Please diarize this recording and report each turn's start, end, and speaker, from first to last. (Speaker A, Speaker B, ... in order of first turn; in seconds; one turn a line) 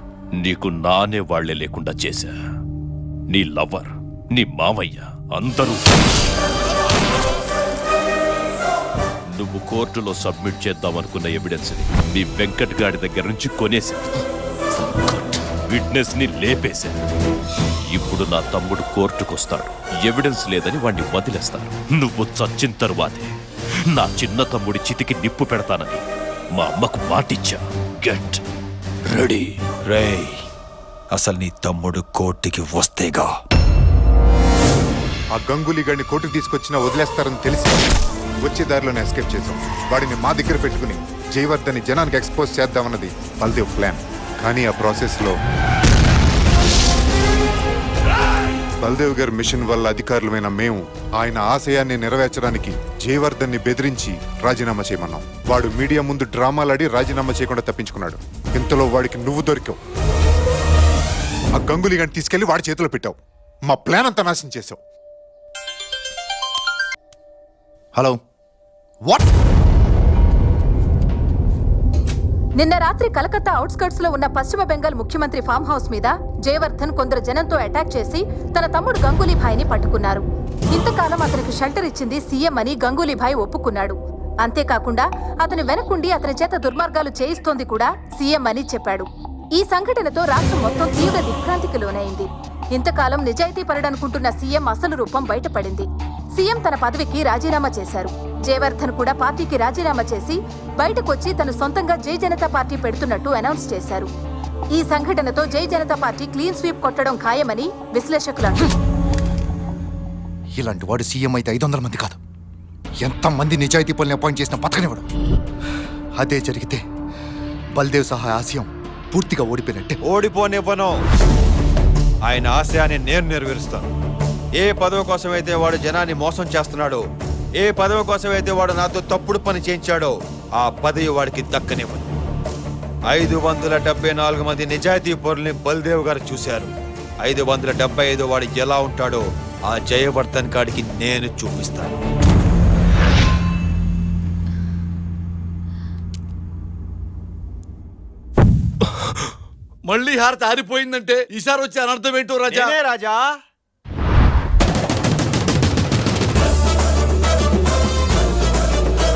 Speaker A: 0.4-2.4
Speaker A: 3.3-5.8
Speaker A: 9.3-14.0
Speaker A: 14.7-17.0
Speaker A: 17.9-23.3
Speaker A: 23.9-26.0
Speaker A: 26.5-28.4
Speaker A: 29.1-29.6
Speaker B: 29.9-30.4
Speaker B: 31.1-33.3
Speaker C: 35.3-37.8
Speaker C: 38.4-45.4
Speaker C: 48.8-59.8
Speaker C: 61.5-64.8
Speaker D: 72.6-104.1
Speaker D: 104.7-108.7
Speaker E: 110.6-112.2
Speaker E: 113.0-115.0
Speaker E: 116.2-116.8
Speaker E: 117.8-120.0
Speaker B: 120.0-121.0
Speaker B: 122.2-123.9
Speaker B: 124.6-127.0
Speaker B: 127.6-132.1
Speaker B: 133.1-136.7
Speaker B: 137.2-141.9
Speaker F: 149.9-152.7
Speaker B: 152.5-153.3